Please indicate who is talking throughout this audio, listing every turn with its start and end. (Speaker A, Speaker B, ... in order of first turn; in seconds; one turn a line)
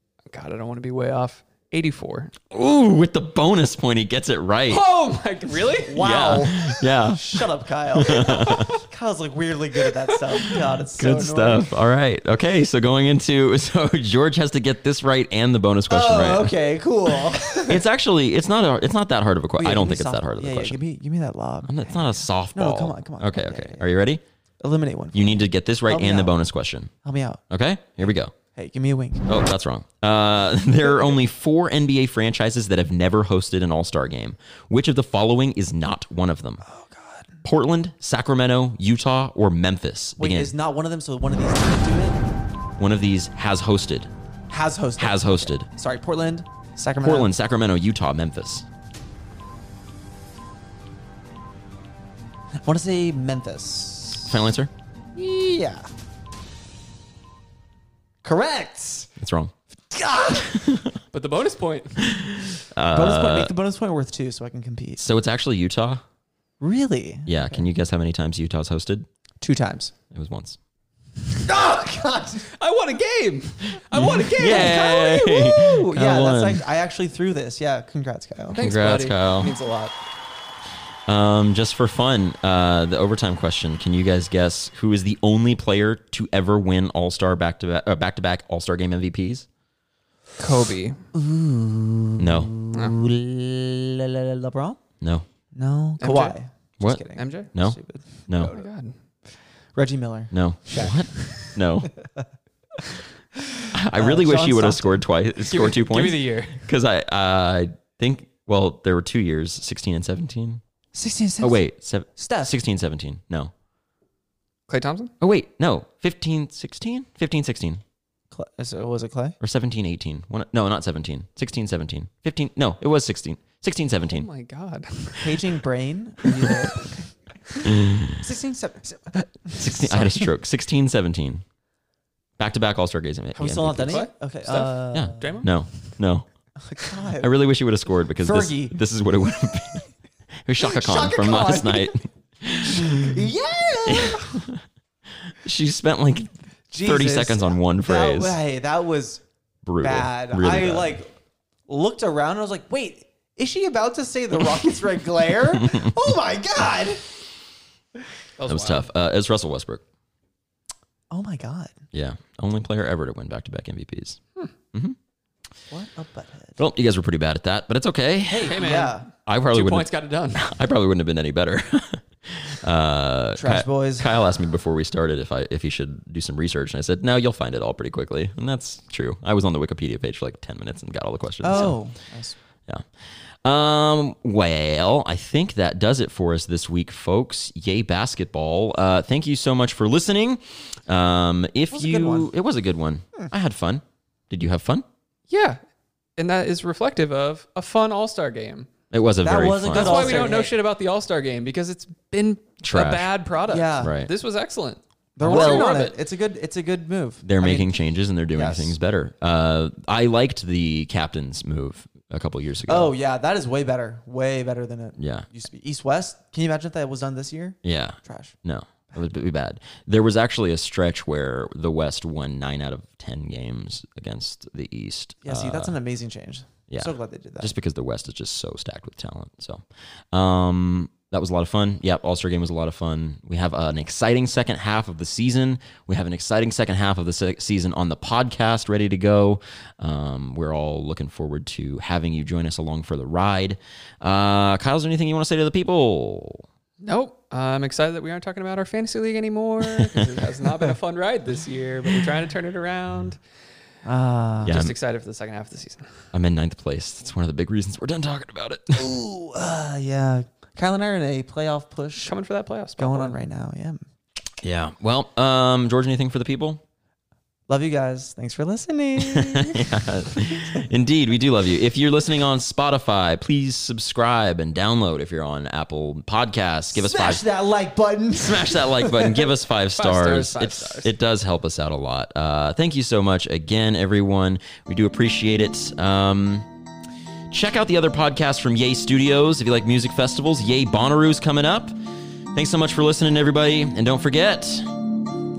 Speaker A: 0.3-2.4
Speaker B: 2.5-4.8
Speaker A: 4.7-6.2
Speaker C: 5.9-11.7
Speaker B: 5.9-8.8
Speaker B: 11.0-16.5
Speaker C: 15.9-17.8
Speaker B: 17.1-20.8
Speaker C: 19.6-23.9
Speaker B: 21.7-24.2
Speaker C: 24.6-26.4
Speaker B: 25.1-26.9
Speaker C: 27.0-27.4
Speaker B: 27.5-28.3
Speaker C: 28.5-29.3
Speaker B: 29.3-36.6
Speaker C: 36.6-37.4
Speaker B: 37.4-40.5
Speaker C: 40.2-42.2
Speaker B: 42.8-44.1
Speaker C: 44.5-47.3
Speaker B: 45.0-45.7
Speaker B: 47.0-48.7
Speaker C: 52.6-54.4
Speaker B: 54.3-54.7
Speaker C: 55.1-55.9
Speaker C: 58.2-59.1
Speaker B: 59.2-59.5
Speaker C: 59.9-60.7
Speaker B: 60.5-61.0
Speaker A: 61.1-62.1
Speaker B: 62.0-63.5
Speaker C: 62.9-65.0
Speaker B: 65.0-66.0
Speaker C: 66.6-67.6
Speaker B: 67.3-69.1
Speaker C: 69.4-69.9
Speaker B: 70.1-70.6
Speaker C: 71.4-72.5
Speaker A: 72.5-75.0
Speaker B: 73.9-76.6
Speaker C: 74.3-78.6
Speaker A: 78.5-80.0
Speaker B: 78.6-79.5
Speaker B: 81.1-89.5
Speaker A: 90.4-91.0
Speaker C: 91.1-94.8
Speaker B: 92.2-92.5
Speaker B: 95.0-95.3
Speaker C: 95.5-98.6
Speaker A: 96.0-96.4
Speaker B: 96.8-98.5
Speaker A: 97.2-97.5
Speaker A: 98.3-98.9
Speaker C: 99.7-101.5
Speaker B: 100.3-101.9
Speaker C: 102.8-105.1
Speaker B: 103.7-110.6
Speaker A: 105.4-106.7
Speaker C: 110.9-112.6
Speaker B: 111.4-113.5
Speaker A: 114.7-115.1
Speaker B: 115.2-117.8
Speaker C: 118.3-119.4
Speaker B: 119.4-124.3
Speaker A: 124.0-125.4
Speaker C: 125.2-130.3
Speaker B: 127.7-128.3
Speaker B: 129.6-131.4
Speaker B: 132.4-134.0
Speaker C: 133.3-135.4
Speaker A: 133.9-135.6
Speaker B: 134.9-136.3
Speaker C: 136.6-137.3
Speaker B: 137.1-139.9
Speaker C: 138.2-138.8
Speaker B: 140.4-143.2
Speaker C: 140.6-142.0
Speaker C: 142.6-144.3
Speaker B: 143.9-144.6
Speaker B: 145.2-148.4
Speaker C: 146.7-149.2
Speaker B: 149.6-151.0
Speaker C: 149.8-151.1
Speaker C: 151.7-157.1
Speaker B: 155.5-156.1
Speaker A: 158.4-158.9
Speaker B: 158.5-159.8
Speaker C: 161.1-161.7
Speaker B: 161.9-165.0
Speaker C: 165.7-166.6
Speaker B: 166.6-168.7
Speaker C: 168.3-169.1
Speaker A: 168.4-170.4
Speaker B: 169.3-181.8
Speaker C: 173.4-174.1
Speaker C: 181.4-182.4
Speaker B: 183.4-194.9
Speaker C: 191.7-192.3
Speaker A: 195.3-195.6
Speaker A: 196.2-198.7
Speaker B: 198.9-200.4
Speaker C: 199.2-200.5
Speaker A: 199.7-206.0
Speaker B: 202.6-203.1
Speaker C: 203.5-203.9
Speaker B: 203.8-204.1
Speaker C: 205.2-207.8
Speaker B: 205.2-205.7
Speaker B: 207.2-212.9
Speaker C: 208.3-208.7
Speaker C: 212.7-218.3
Speaker B: 215.0-215.3
Speaker B: 217.6-225.8
Speaker C: 225.2-227.5
Speaker B: 226.7-246.5
Speaker A: 246.8-253.2
Speaker B: 249.8-250.1
Speaker C: 253.8-254.6
Speaker A: 254.4-256.0
Speaker B: 254.5-254.8
Speaker B: 256.1-258.9
Speaker C: 258.7-262.1
Speaker A: 262.0-263.2
Speaker C: 262.8-263.8
Speaker B: 264.4-266.6
Speaker C: 267.5-270.6
Speaker B: 269.0-277.2
Speaker C: 276.7-279.2
Speaker B: 278.2-286.5
Speaker A: 279.8-280.9
Speaker B: 287.3-291.8
Speaker B: 292.3-294.7